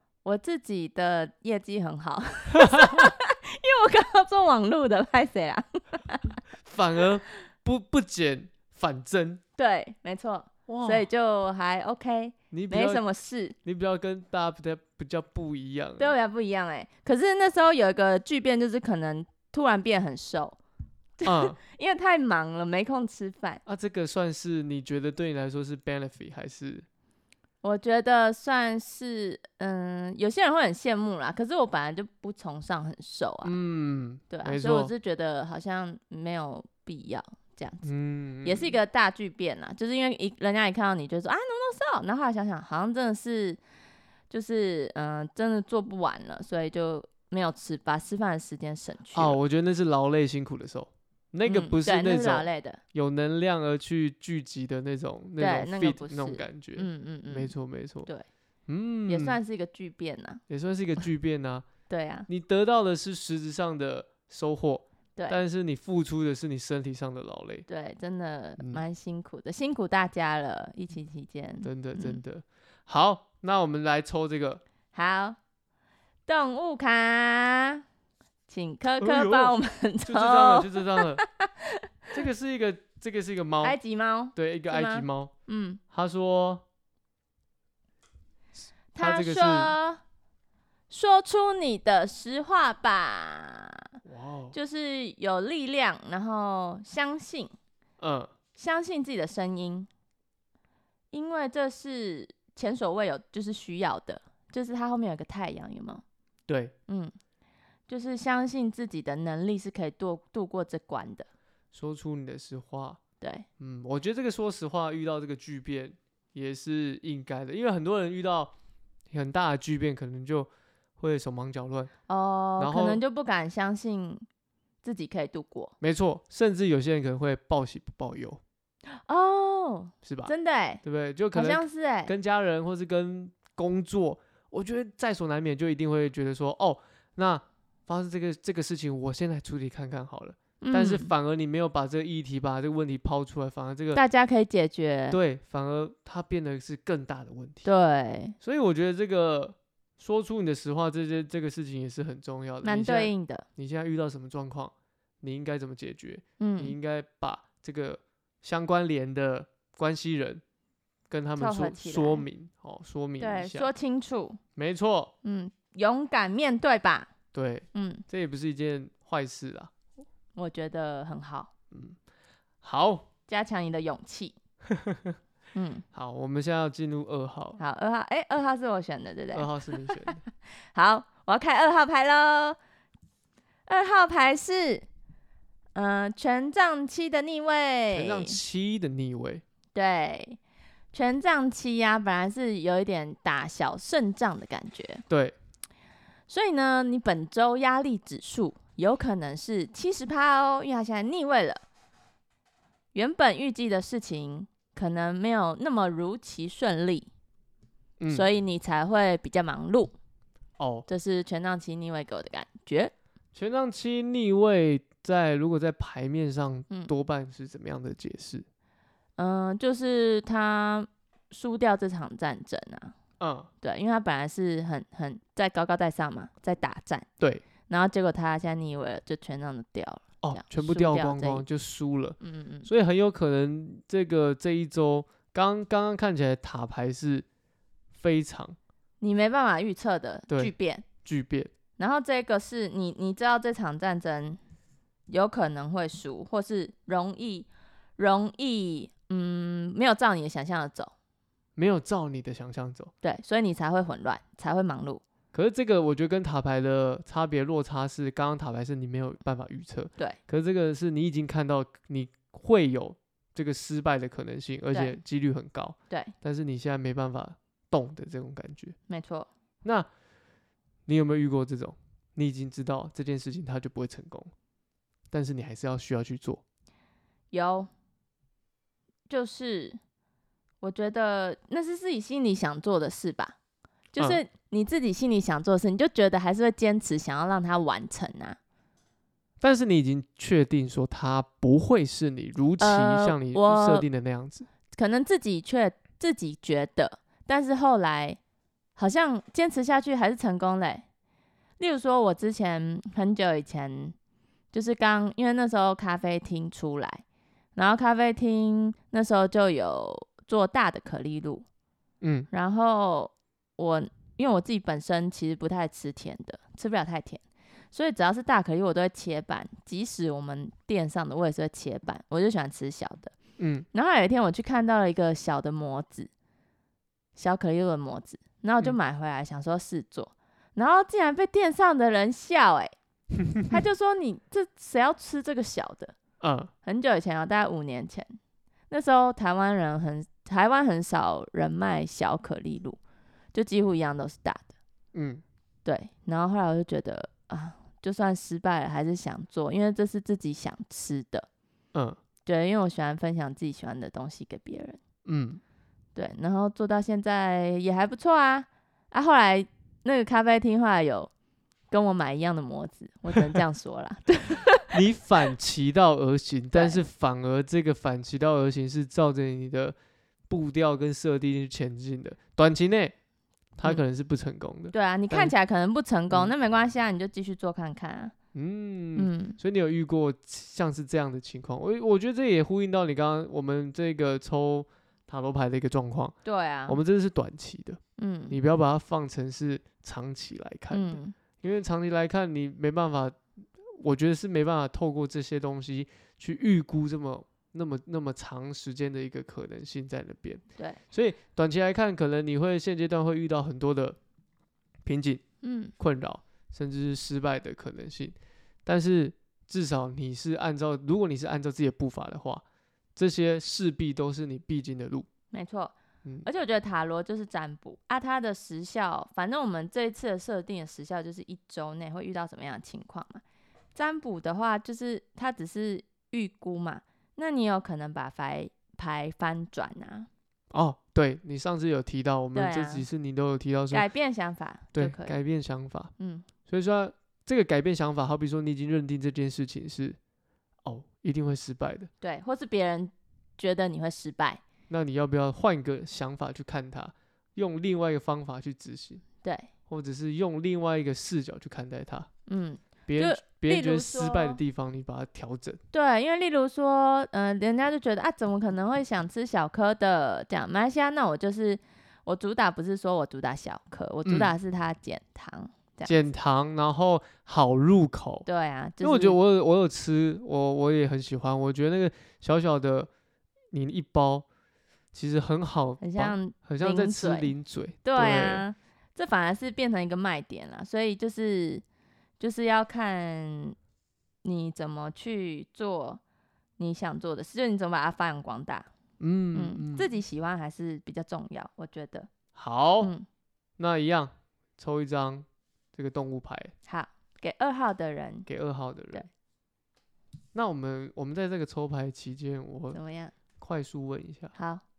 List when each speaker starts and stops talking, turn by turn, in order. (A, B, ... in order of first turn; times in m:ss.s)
0:00.2-0:06.4 A
0:02.6-0:03.1 B
0:06.6-0:09.4 B
0:09.6-0:13.6 A
0:10.7-0:11.1 B
0:12.5-0:13.0 B
0:13.6-0:16.2 B
0:16.0-0:20.6 A
0:21.2-0:23.6 A
0:21.2-0:21.6 B
0:23.7-0:26.9 B
0:27.6-0:33.6 A
0:33.4-0:34.9 B
0:34.3-0:37.9 A
0:37.8-0:38.8 B
0:38.4-0:43.6 A
0:44.3-0:49.4 A
0:49.1-0:58.1 B
0:51.5-0:52.8 A
0:55.4-0:57.5 A
0:58.7-0:59.4 B
0:59.1-1:00.4 A
1:00.5-1:01.7 B
1:01.9-1:02.3 A
1:02.3-1:07.7 B
1:07.7-1:12.2 A
1:08.6-1:08.8 B
1:11.6-1:14.6 B
1:14.9-1:15.4 A
1:16.3-1:17.8 A
1:18.5-1:22.2 A
1:19.0-1:21.2 B
1:22.1-1:23.8 B
1:23.6-1:25.8 A
1:24.4-1:25.3 B
1:25.9-1:26.6 B
1:28.9-1:30.0 A
1:29.0-1:29.7 B
1:30.9-1:33.8 A
1:34.0-1:34.6 B
1:34.5-1:37.6 A
1:38.0-1:38.3 B
1:38.6-1:39.9 A
1:41.1-1:46.0 A
1:46.5-1:46.7 B
1:46.9-1:47.1 A
1:47.9-1:51.3 A
1:51.7-1:53.0 B
1:53.2-1:53.5 A
1:53.6-1:58.5 B
1:59.1-2:01.9 B
2:02.1-2:04.2 A
2:02.6-2:03.0 B
2:04.8-2:05.7 A
2:05.8-2:08.4 B
2:08.9-2:10.8 A
2:10.0-2:24.0 B
2:11.3-2:12.1 A
2:20.6-2:21.1 A
2:23.9-2:25.2 A
2:25.1-2:27.7 B
2:27.6-2:28.4 A
2:28.4-2:40.4 B
2:32.6-2:33.5 A
2:36.4-2:36.8 A
2:41.1-2:43.7 B
2:41.4-2:42.3 A
2:43.2-2:44.4 A
2:44.6-2:45.1 B
2:45.2-2:47.1 A
2:47.3-2:49.7 B
2:47.7-2:48.0 A
2:50.4-2:51.5 A
2:51.7-2:52.0 B
2:52.6-2:53.1 B
2:53.3-2:54.4 A
2:54.7-2:55.2 B
2:55.5-2:55.8 A
2:55.9-2:57.6 B
2:57.6-3:02.6 A
2:59.3-3:00.2 B
3:03.7-3:04.9 A
3:05.8-3:08.4 A
3:07.9-3:09.4 B
3:09.7-3:10.4 A
3:10.9-3:15.0 A
3:15.1-3:15.4 B
3:16.3-3:21.6 A
3:22.9-3:27.1 A
3:28.0-3:28.3 B
3:28.1-3:29.9 A
3:30.6-3:30.9 B
3:30.9-3:32.9 A
3:33.4-3:38.5 B
3:39.2-3:43.0 A
3:43.2-3:43.5 B
3:43.6-3:47.1 A
3:47.7-3:51.4 A
3:50.2-3:57.3 B
3:52.2-3:52.7 A
3:57.9-3:58.6 B
3:59.0-4:00.9 A
4:01.0-4:01.5 B
4:01.8-4:04.4 A
4:05.1-4:10.9 A
4:11.6-4:12.9 B
4:13.0-4:15.0 A
4:15.3-4:28.8 B
4:24.7-4:25.0 A
4:28.9-4:29.3 A
4:30.9-4:34.3 B
4:35.1-4:36.4 B
4:37.3-4:37.7 A
4:39.1-4:39.8 A
4:40.6-4:43.4 A
4:43.9-4:48.4 A
4:49.4-4:54.5 B
4:52.6-4:53.9 A
4:54.7-4:58.2 A
4:58.8-5:00.9 A
5:01.6-5:04.0 A
5:04.5-5:07.0 A
5:07.6-5:11.4 A
5:12.0-5:12.3 B
5:12.3-5:23.2 A
5:23.4-5:23.6 B
5:23.7-5:26.1 A
5:27.2-5:32.7 A
5:33.2-5:33.5 B
5:33.5-5:36.0 A
5:36.2-5:36.5 B
5:36.6-5:38.2 A
5:38.7-5:42.8 A
5:43.3-5:44.5 A
5:44.9-5:45.2 B
5:45.6-5:51.3 A
5:52.3-5:54.8 A
5:55.1-5:55.4 B
5:56.0-6:01.1 A
6:01.7-6:04.8 A
6:04.7-6:09.8 B
6:06.5-6:06.8 A
6:10.3-6:12.9 B
6:13.6-6:15.3 B
6:14.7-6:18.1 A
6:18.3-6:26.2 B
6:19.0-6:19.4 A
6:26.2-6:26.8 A
6:26.7-6:44.0 B
6:28.0-6:28.4 A
6:30.7-6:31.1 A
6:44.8-6:45.2 B
6:45.4-6:45.7 A
6:45.8-6:52.4 B
6:53.0-6:55.1 B
6:55.3-7:03.2 A
7:03.8-7:10.1 A
7:10.5-7:13.8 B
7:12.3-7:12.9 A
7:13.7-7:15.2 A
7:14.8-7:15.9 B
7:16.0-7:16.3 A
7:16.5-7:20.0 B
7:20.6-7:21.9 B
7:22.0-7:24.4 A
7:24.7-7:29.0 B
7:29.2-7:29.5 A
7:29.7-7:32.1 B
7:32.3-7:34.4 A
7:32.9-7:35.6 B
7:35.7-7:46.0 A
7:44.1-7:44.3 B
7:45.8-7:48.3 B
7:48.3-7:49.2 A
7:48.8-7:52.9 B
7:53.5-7:54.3 B
7:54.9-7:58.4 B
7:55.8-7:57.3 A
7:57.8-8:01.6 A
8:02.2-8:03.6 A
8:04.2-8:06.0 A
8:06.6-8:08.7 A
8:09.0-8:09.9 B
8:09.3-8:12.1 A
8:12.4-8:12.9 B
8:12.8-8:13.1 A
8:13.6-8:16.5 B
8:16.7-8:18.3 A
8:18.3-8:19.1 B
8:20.3-8:22.8 B
8:22.7-8:23.1 A
8:23.4-8:24.3 B
8:24.4-8:24.6 A